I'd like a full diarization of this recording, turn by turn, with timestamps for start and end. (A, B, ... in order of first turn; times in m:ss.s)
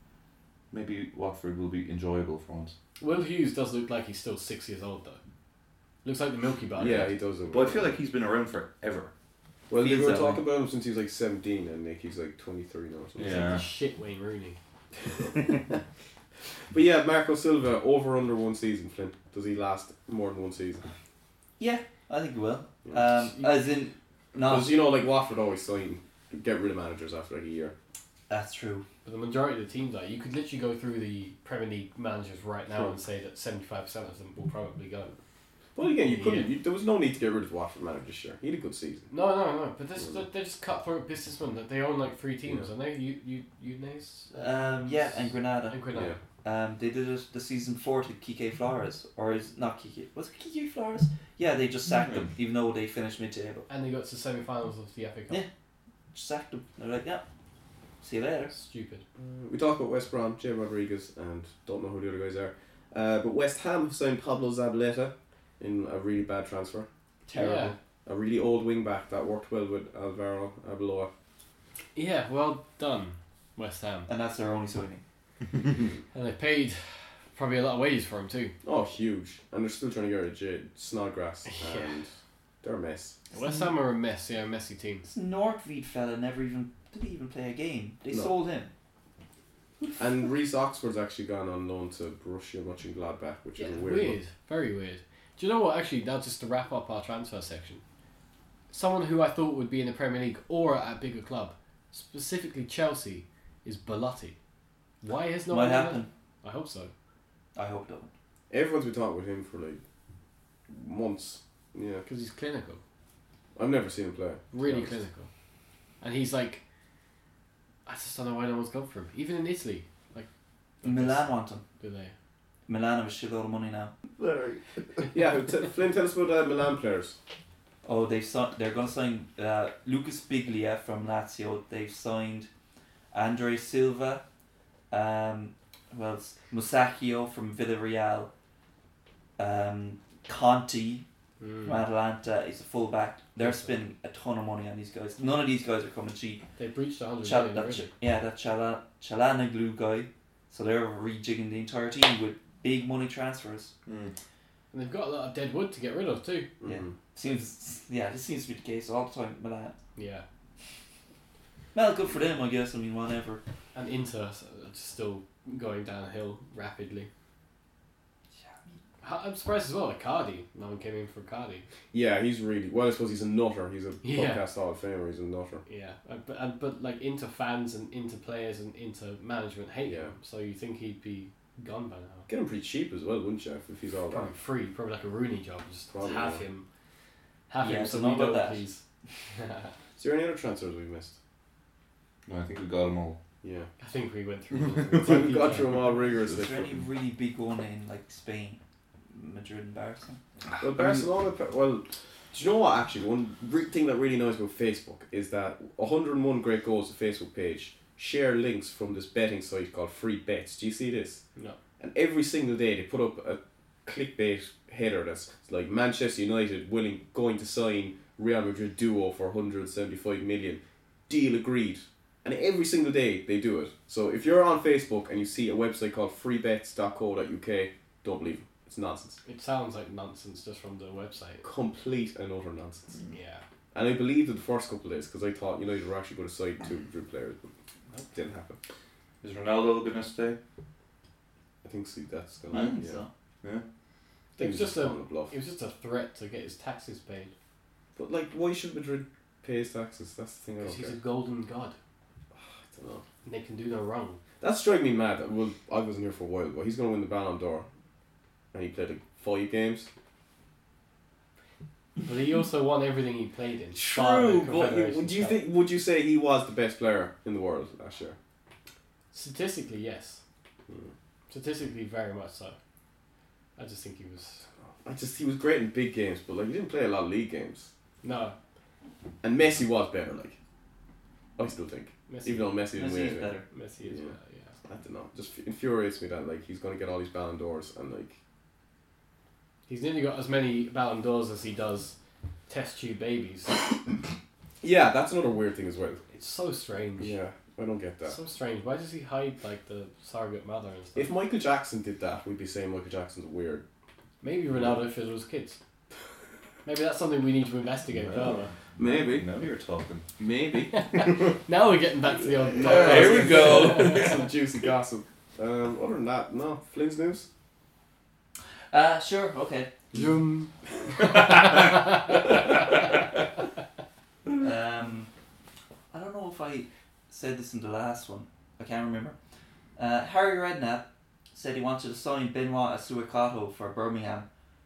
0:00.7-0:02.7 A
0:03.0-0:05.2 B
0:06.0-0:07.1 B
0:06.8-0:08.0 C
0:06.8-0:09.1 A
0:09.7-0:13.6 C
0:09.8-0:10.4 D
0:13.2-0:13.6 A
0:13.2-0:14.6 B
0:15.3-0:15.7 C
0:16.7-0:20.8 C
0:21.6-0:24.8 D
0:24.4-0:27.7 C
0:28.3-0:28.8 D
0:29.0-0:35.1 B
0:35.8-0:39.1 C
0:36.0-0:36.5 B
0:39.1-0:46.2 B
0:44.3-0:45.9 D
0:45.9-0:46.2 C
0:46.4-0:53.7 D
0:52.0-0:52.2 A
0:53.7-0:55.4 B
0:56.1-0:57.2 D
0:58.0-0:58.5 D
0:58.5-0:59.0 B
0:59.2-1:06.9 C
1:07.2-1:07.8 D
1:07.3-1:07.7 B
1:08.0-1:11.1 C
1:11.9-1:14.1 B
1:14.1-1:15.0 D
1:16.1-1:18.5 B
1:18.6-1:22.1 C
1:21.4-1:21.9 B
1:22.6-1:23.2 C
1:23.3-1:23.7 D
1:23.3-1:25.1 B
1:25.1-1:28.7 D
1:30.0-1:34.2 C
1:33.6-1:37.8 B
1:38.7-1:44.4 B
1:45.0-1:46.9 B
1:45.5-1:46.1 D
1:47.5-1:48.1 D
1:48.5-1:49.8 C
1:50.7-1:52.0 C
1:52.0-1:52.8 B
1:53.6-1:54.9 C
1:54.5-1:55.3 B
1:56.0-1:56.6 B
1:57.8-2:00.3 B
2:00.8-2:02.1 B
2:00.8-2:01.6 D
2:02.7-2:05.0 D
2:05.1-2:07.2 C
2:07.8-2:12.5 D
2:13.1-2:14.2 D
2:14.9-2:18.3 D
2:19.4-2:21.0 D
2:21.4-2:21.8 B
2:21.6-2:26.4 D
2:26.6-2:27.9 B
2:27.2-2:33.7 D
2:33.9-2:34.1 A
2:34.7-2:36.5 B
2:36.6-2:36.9 C
2:36.6-2:39.7 D
2:40.0-2:40.2 B
2:41.7-2:43.4 D
2:43.7-2:47.1 B
2:48.4-2:48.7 D
2:49.0-2:51.6 B
2:51.9-2:55.6 C
2:54.0-2:54.4 B
2:55.7-3:02.3 B
2:59.8-3:00.1 C
3:02.3-3:04.3 C
3:04.1-3:06.6 B
3:05.9-3:06.4 C
3:07.5-3:08.8 B
3:07.6-3:08.6 D
3:09.3-3:09.7 B
3:10.0-3:11.2 C
3:12.3-3:13.2 A
3:13.4-3:13.7 C
3:13.8-3:15.8 B
3:14.5-3:15.5 A
3:15.0-3:16.8 C
3:16.1-3:18.6 D
3:19.1-3:20.2 D
3:20.5-3:21.1 A
3:20.6-3:31.2 C
3:31.8-3:49.2 C
3:49.2-3:51.4 B
3:51.4-3:53.0 C
3:53.1-3:53.4 B
3:53.7-3:57.4 C
3:58.0-3:58.6 C
3:59.2-4:00.4 A
4:01.6-4:03.0 C
4:02.5-4:03.1 D
4:04.4-4:05.3 C
4:04.4-4:07.3 B
4:08.0-4:11.0 C
4:10.6-4:11.8 B
4:12.3-4:13.0 C
4:13.2-4:14.2 B
4:14.4-4:17.7 C
4:18.5-4:19.9 C
4:22.0-4:25.4 B
4:23.7-4:28.2 C
4:29.1-4:30.2 B
4:31.3-4:32.6 B
4:33.6-4:34.4 B
4:34.8-4:37.7 C
4:38.0-4:38.4 B
4:39.2-4:40.4 C
4:41.4-4:43.3 C
4:42.1-4:42.6 B
4:42.7-4:43.4 D
4:43.5-4:44.6 B
4:43.8-4:44.1 C
4:44.6-4:48.2 C
4:49.7-4:51.9 B
4:52.5-4:53.5 B
4:54.6-4:56.0 C
4:56.1-4:57.2 B
4:57.0-4:58.2 C
4:58.0-5:01.1 B
5:00.9-5:03.6 C
5:04.2-5:05.6 B
5:06.6-5:08.5 B
5:08.8-5:09.3 C
5:08.8-5:10.1 A
5:10.2-5:11.3 C
5:10.7-5:14.2 B
5:12.5-5:17.3 C
5:12.6-5:14.2 A
5:18.7-5:19.7 D
5:19.9-5:22.2 B
5:21.0-5:22.1 A
5:24.4-5:25.1 D
5:25.9-5:29.2 D
5:29.8-5:34.3 D